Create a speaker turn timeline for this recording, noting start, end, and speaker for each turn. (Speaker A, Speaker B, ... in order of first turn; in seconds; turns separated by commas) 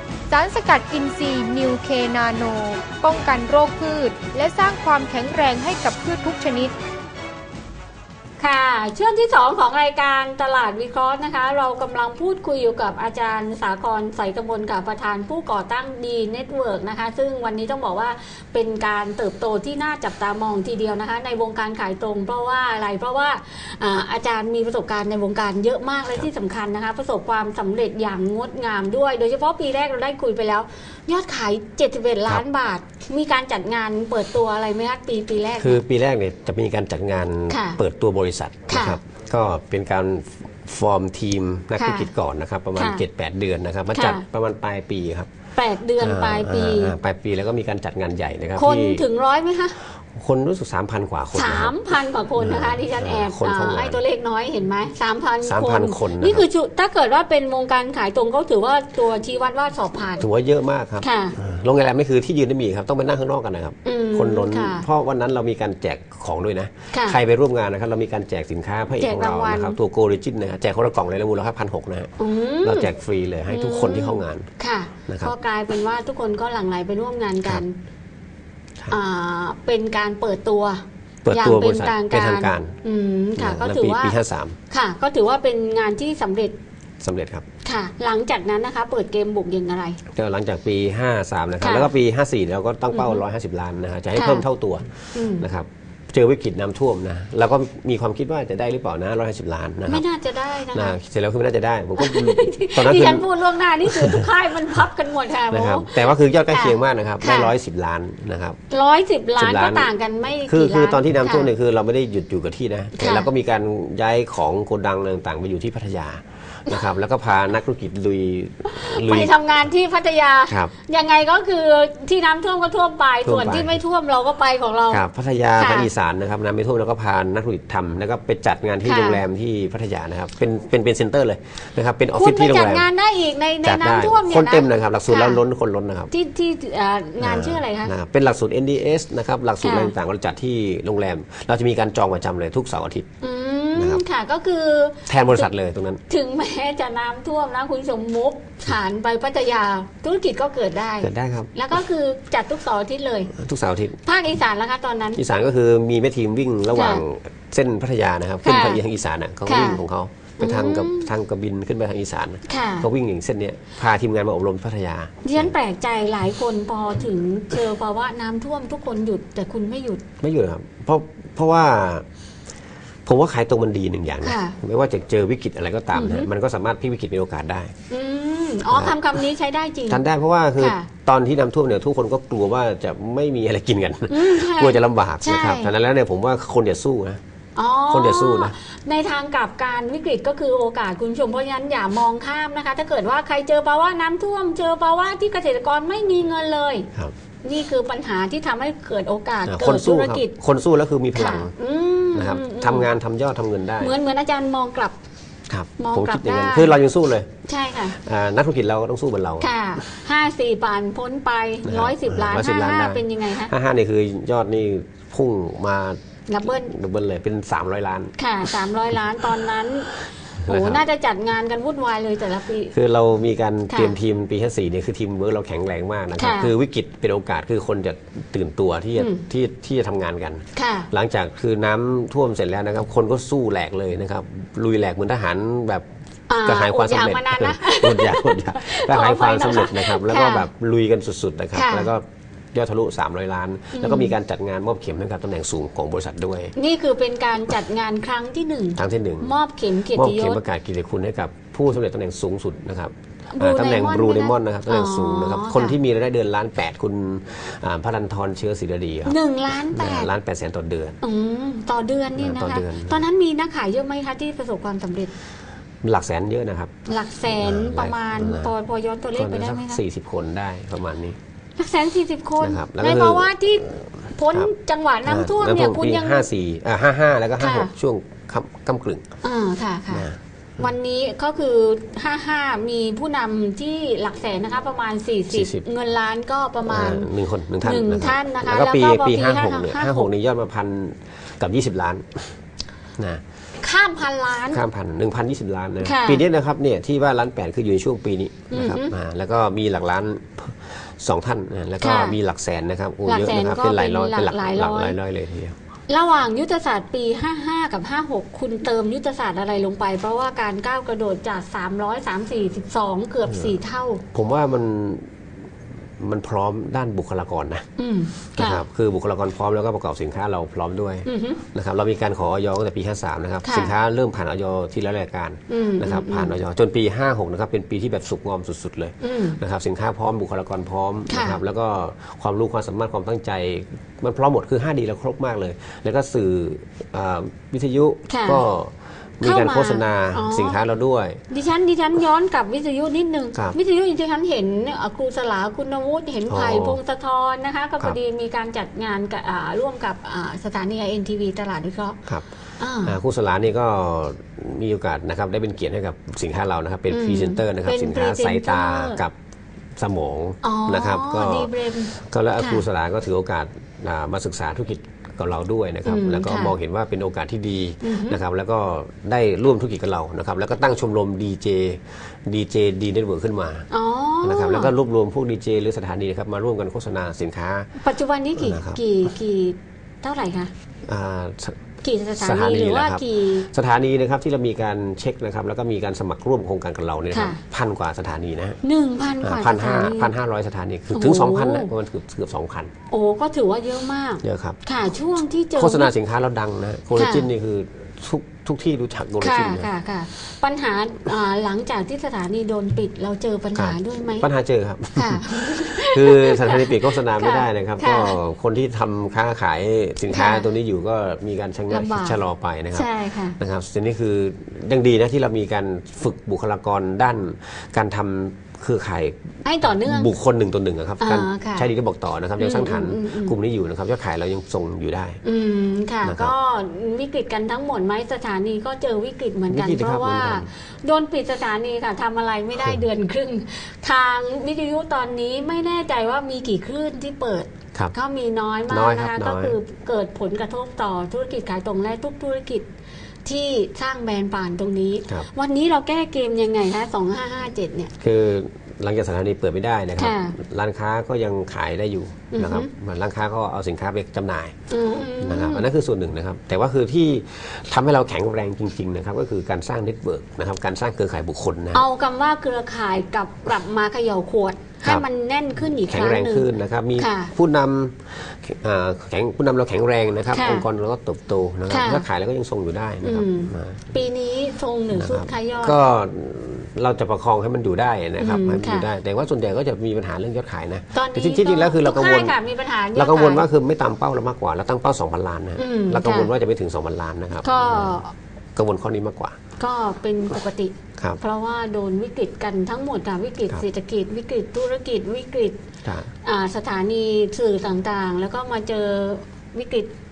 Speaker A: 0.3-6.7, Speaker B: 8.4-35.8, Speaker C: 35.6-45.3, Speaker B: 37.5-37.8, Speaker B: 38.7-39.0, Speaker B: 41.8-42.1, Speaker B: 42.8-43.0, Speaker B: 43.9-44.2, Speaker B: 45.6-47.0, Speaker C: 46.0-49.1, Speaker B: 48.5-49.8, Speaker C: 50.1-51.8, Speaker B: 51.3-60.3, Speaker C: 52.4-54.0, Speaker C: 55.4-56.5, Speaker C: 60.2-74.5, Speaker B: 61.0-61.4, Speaker B: 63.9-64.9, Speaker B: 66.9-67.2, Speaker B: 69.0-69.8, Speaker B: 72.2-72.9, Speaker B: 73.5-77.8, Speaker C: 75.1-75.3, Speaker B: 78.9-84.2, Speaker C: 81.2-82.8, Speaker C: 83.4-84.6, Speaker B: 84.7-86.6, Speaker C: 87.0-87.5, Speaker B: 87.6-90.0, Speaker C: 90.1-100.0, Speaker B: 91.6-91.9, Speaker B: 92.9-93.2, Speaker B: 94.1-94.5, Speaker B: 95.1-95.5, Speaker B: 99.9-101.0, Speaker C: 100.7-103.3, Speaker B: 102.0-107.5, Speaker C: 103.9-104.3, Speaker C: 105.5-108.6, Speaker B: 108.7-111.5, Speaker C: 109.4-109.9, Speaker C: 110.5-119.3, Speaker B: 113.0-113.3, Speaker B: 118.7-125.0, Speaker C: 123.2-123.8, Speaker C: 124.9-132.9, Speaker B: 125.6-125.9, Speaker B: 128.8-129.2, Speaker B: 132.2-135.4, Speaker C: 133.6-136.1, Speaker B: 136.1-137.9, Speaker C: 137.2-143.1, Speaker B: 139.6-139.9, Speaker B: 143.2-145.5, Speaker C: 143.8-144.0, Speaker C: 145.1-146.0, Speaker B: 146.1-153.3, Speaker C: 151.0-151.5, Speaker C: 153.3-154.0, Speaker B: 154.0-155.2, Speaker C: 155.2-165.5, Speaker B: 156.7-157.0, Speaker B: 158.4-158.8, Speaker B: 159.5-159.8, Speaker B: 160.4-161.1, Speaker B: 162.5-162.9, Speaker B: 165.2-170.0, Speaker C: 170.2-172.1, Speaker C: 173.1-177.7, Speaker B: 174.2-174.6, Speaker B: 175.9-176.3, Speaker B: 177.9-180.0, Speaker C: 178.7-179.0, Speaker C: 179.9-187.2, Speaker B: 180.6-180.9, Speaker B: 184.1-185.7, Speaker B: 187.6-196.9, Speaker C: 187.9-188.6, Speaker B: 197.4-200.3, Speaker C: 199.5-201.5, Speaker B: 201.1-202.9, Speaker C: 202.1-203.9, Speaker B: 203.8-205.0, Speaker C: 205.5-207.3, Speaker B: 205.8-206.7, Speaker B: 207.4-208.0, Speaker C: 207.9-209.5, Speaker B: 209.4-213.5, Speaker C: 211.7-218.1, Speaker B: 216.3-216.7, Speaker B: 218.2-219.9, Speaker C: 220.4-220.8, Speaker B: 220.4-222.7, Speaker C: 222.7-235.8, Speaker B: 223.7-224.0, Speaker B: 226.2-226.5, Speaker B: 229.0-229.2, Speaker B: 230.5-230.9, Speaker B: 236.3-240.5, Speaker C: 236.4-246.5, Speaker B: 241.5-241.9, Speaker B: 243.7-244.1, Speaker B: 246.6-250.4, Speaker C: 248.8-249.3, Speaker C: 249.9-259.2, Speaker B: 253.3-255.8, Speaker B: 259.1-260.1, Speaker C: 259.7-261.0, Speaker B: 261.0-265.1, Speaker C: 262.2-263.0, Speaker C: 265.8-266.7, Speaker B: 266.9-269.8, Speaker C: 267.3-268.5, Speaker C: 269.1-271.2, Speaker B: 271.6-276.3, Speaker C: 272.4-273.3, Speaker C: 275.1-279.0, Speaker B: 277.4-277.7, Speaker B: 279.2-290.1, Speaker C: 279.9-280.2, Speaker C: 285.3-285.6, Speaker C: 286.7-292.4, Speaker B: 293.6-294.6, Speaker C: 294.5-305.6, Speaker B: 295.8-296.2, Speaker B: 298.5-298.9, Speaker B: 301.8-302.2, Speaker B: 303.1-305.0, Speaker B: 305.9-314.0, Speaker C: 314.1-315.1, Speaker C: 316.0-317.7, Speaker B: 317.8-318.6, Speaker C: 318.4-341.2, Speaker B: 321.1-321.4, Speaker B: 323.4-323.8, Speaker B: 325.5-326.3, Speaker B: 329.0-329.4, Speaker B: 331.1-331.4, Speaker B: 338.1-338.4, Speaker B: 339.2-340.6, Speaker B: 341.3-352.0, Speaker C: 346.3-346.8, Speaker B: 352.6-353.0, Speaker C: 352.8-359.1, Speaker B: 356.9-359.0, Speaker C: 359.8-373.7, Speaker B: 360.4-362.6, Speaker B: 365.9-366.6, Speaker B: 367.8-368.2, Speaker B: 373.7-374.7, Speaker C: 374.2-377.7, Speaker B: 377.8-380.5, Speaker C: 378.4-378.8, Speaker C: 380.9-381.6, Speaker B: 381.8-383.5, Speaker C: 382.2-388.6, Speaker B: 387.1-387.4, Speaker B: 388.6-390.1, Speaker C: 389.2-392.7, Speaker B: 390.9-391.7, Speaker B: 392.9-395.9, Speaker C: 394.2-394.6, Speaker C: 395.6-399.7, Speaker B: 396.9-397.3, Speaker B: 399.2-404.3, Speaker C: 403.6-419.2, Speaker B: 405.0-408.2, Speaker B: 410.1-410.5, Speaker B: 411.7-412.2, Speaker B: 412.7-413.4, Speaker B: 419.4-420.1, Speaker C: 419.8-425.2, Speaker B: 421.0-421.7, Speaker B: 422.4-423.4, Speaker B: 425.2-442.7, Speaker C: 426.0-426.3, Speaker C: 429.5-430.5, Speaker C: 438.7-439.6, Speaker B: 443.2-447.9, Speaker C: 448.0-454.5, Speaker B: 450.0-450.4, Speaker B: 452.3-452.7, Speaker B: 454.7-455.7, Speaker C: 455.2-461.8, Speaker B: 461.7-467.3, Speaker C: 465.8-473.9, Speaker B: 470.3-470.7, Speaker B: 471.7-472.1, Speaker B: 473.0-475.8, Speaker C: 474.9-482.4, Speaker B: 478.2-478.9, Speaker B: 480.9-483.4, Speaker C: 482.9-488.0, Speaker B: 485.6-486.3, Speaker B: 487.4-488.1, Speaker C: 488.6-489.4, Speaker B: 489.6-495.6, Speaker C: 495.8-496.1, Speaker B: 496.2-499.9